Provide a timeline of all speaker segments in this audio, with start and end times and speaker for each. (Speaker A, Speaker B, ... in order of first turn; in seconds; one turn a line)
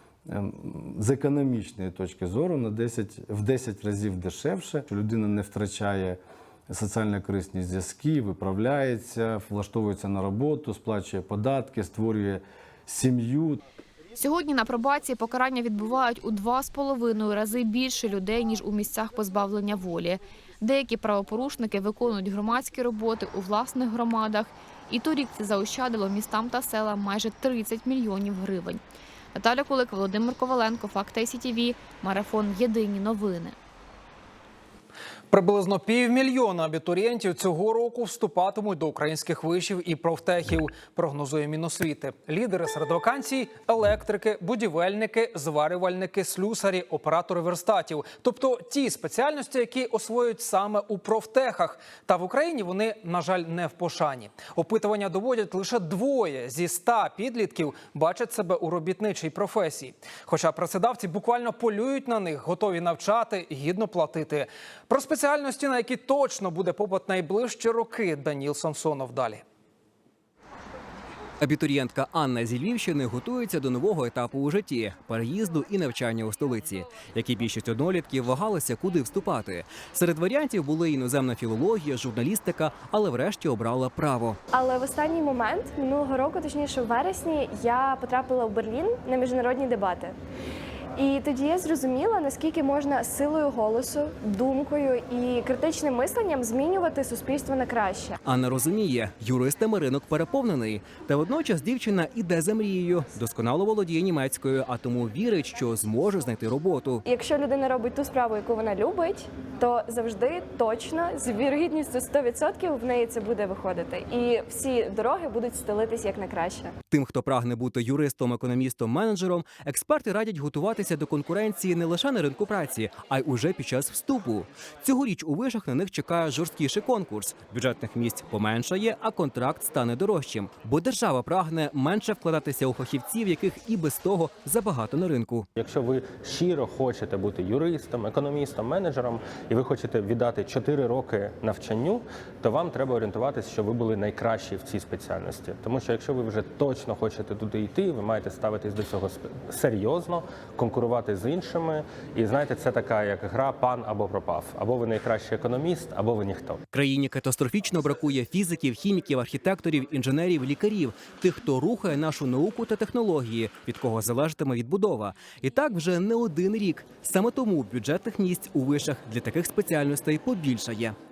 Speaker A: 0.3-13.6
Speaker B: 14.2-28.8
Speaker B: 29.3-33.5
Speaker C: 35.3-69.4
Speaker D: 71.4-84.4
Speaker E: 84.5-90.2
Speaker E: 91.0-98.1
Speaker D: 98.2-107.0
Speaker E: 107.0-116.7
Speaker D: 116.9-135.5
Speaker F: 135.6-156.6
Speaker D: 156.7-170.9